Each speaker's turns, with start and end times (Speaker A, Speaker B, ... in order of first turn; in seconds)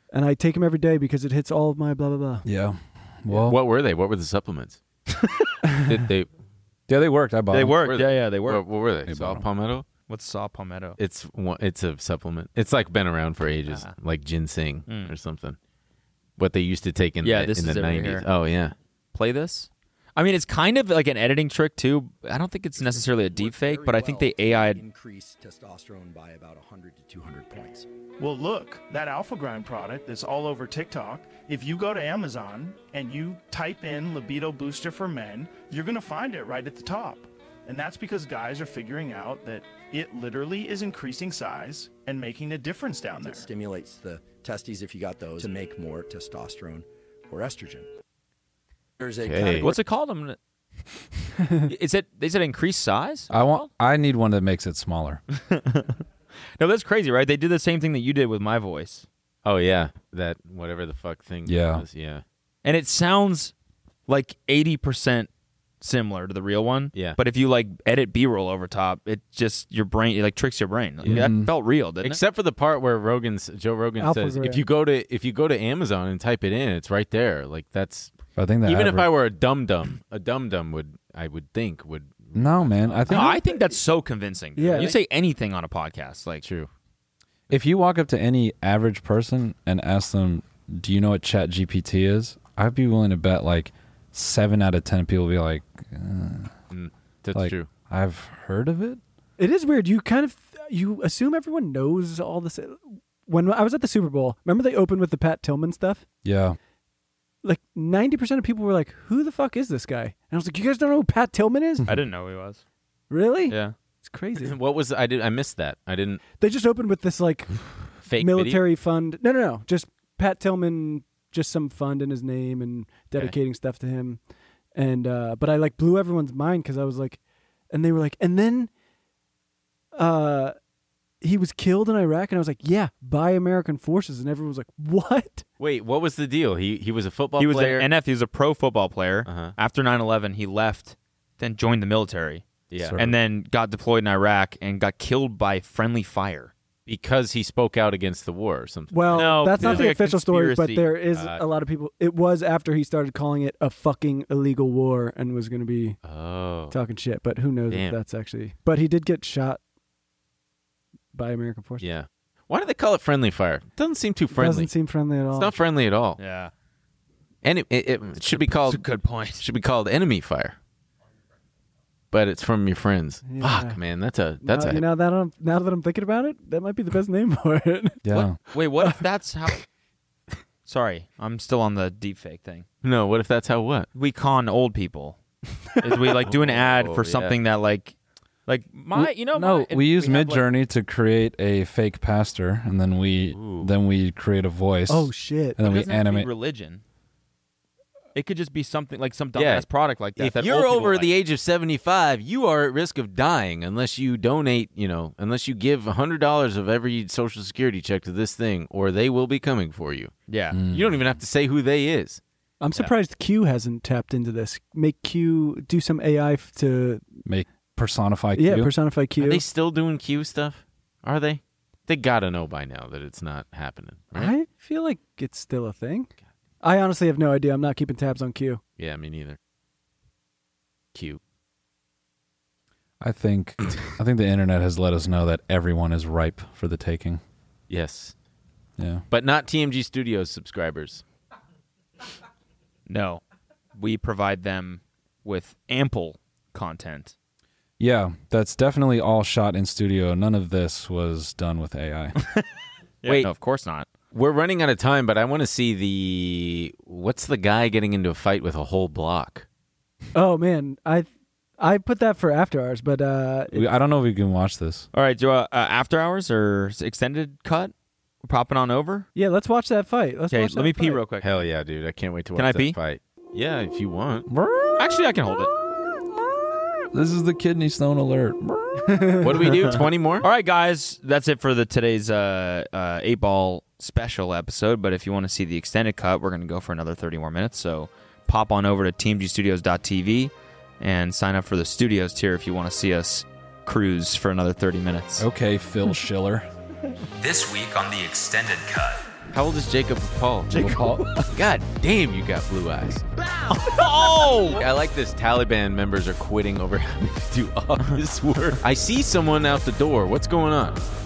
Speaker A: 0.1-2.5, 74.0-74.6, 83.1-83.7, 84.5-84.9, 99.4-106.0, 107.4-111.8, 113.1-114.5, 116.4-124.2, 124.7-127.2, 127.7-128.7, 129.9-130.5, 131.2-135.4, 148.9-156.0, 156.7-159.6, 161.1-161.9, 164.3-165.5, 173.3-173.8, 174.4-178.0, 194.9-195.6, 212.6-217.0, 218.3-219.4, 224.1-226.1, 226.6-228.6, 260.1-263.6, 269.1-271.0, 278.9-279.5
Speaker B: 2.4-3.6, 6.9-7.8, 9.1-9.4, 53.3-55.2, 61.5-61.8, 71.1-71.5, 78.3-79.1, 82.3-83.3, 87.5-96.5, 97.3-99.0, 106.2-106.6, 142.8-143.2, 149.6-149.9, 178.0-178.4, 188.9-196.3, 210.5-211.2, 217.2-218.7, 233.0-237.2, 238.8-239.0, 247.8-252.2, 263.5-264.9, 274.3-274.8, 276.9-279.1, 295.2-296.5, 300.5-301.1
Speaker C: 3.3-4.8, 5.8-6.3, 7.8-9.8, 11.0-15.6, 16.4-18.7, 49.2-49.8, 59.4-62.2, 66.9-67.2, 71.0-71.3, 72.0-78.1, 78.7-83.2, 86.4-86.7, 96.7-97.7, 114.4-116.2, 118.0-118.6, 135.6-137.9, 139.2-139.6, 142.7-143.0, 146.9-149.7, 151.1-151.4, 156.0-156.8, 157.7-157.9, 161.8-164.7, 165.3-166.2, 167.4-168.8, 169.4-170.6, 172.1-174.8, 182.8-183.9, 186.2-187.4, 193.3-193.7, 199.3-199.7, 200.2-210.1, 210.7-212.2, 219.2-224.3, 228.8-229.4, 230.9-231.2, 237.7-238.1, 239.1-241.0, 253.1-253.3, 254.1-259.4, 271.2-274.3, 279.2-280.3, 299.3-300.7, 301.3-303.0, 304.5-310.8
Speaker D: 5.2-5.5, 7.5-8.6, 10.1-11.0, 13.7-13.9, 14.9-15.1, 17.2-18.3, 19.1-24.8, 49.6-50.4, 51.6-53.7, 55.3-55.9, 56.6-59.1, 62.6-63.5, 64.1-65.3, 65.8-72.2, 83.1-86.4, 111.9-112.6, 113.5-113.7, 137.4-146.5, 149.1-150.9, 166.2-166.5, 168.3-169.4, 178.1-179.6, 180.7-182.6, 183.9-185.2, 185.8-187.9, 188.5-190.4, 195.6-196.8, 198.1-201.1, 210.3-210.6, 242.9-243.2, 243.7-247.1, 252.2-252.4, 253.0-253.9, 264.9-267.7, 268.2-269.1, 270.3-271.3, 272.4-272.8, 274.8-275.5, 280.2-295.3, 297.2-299.1, 300.5-301.3, 303.4-304.6
Speaker E: 22.8-27.9, 43.1-47.9, 49.0-49.7
Speaker F: 28.2-43.5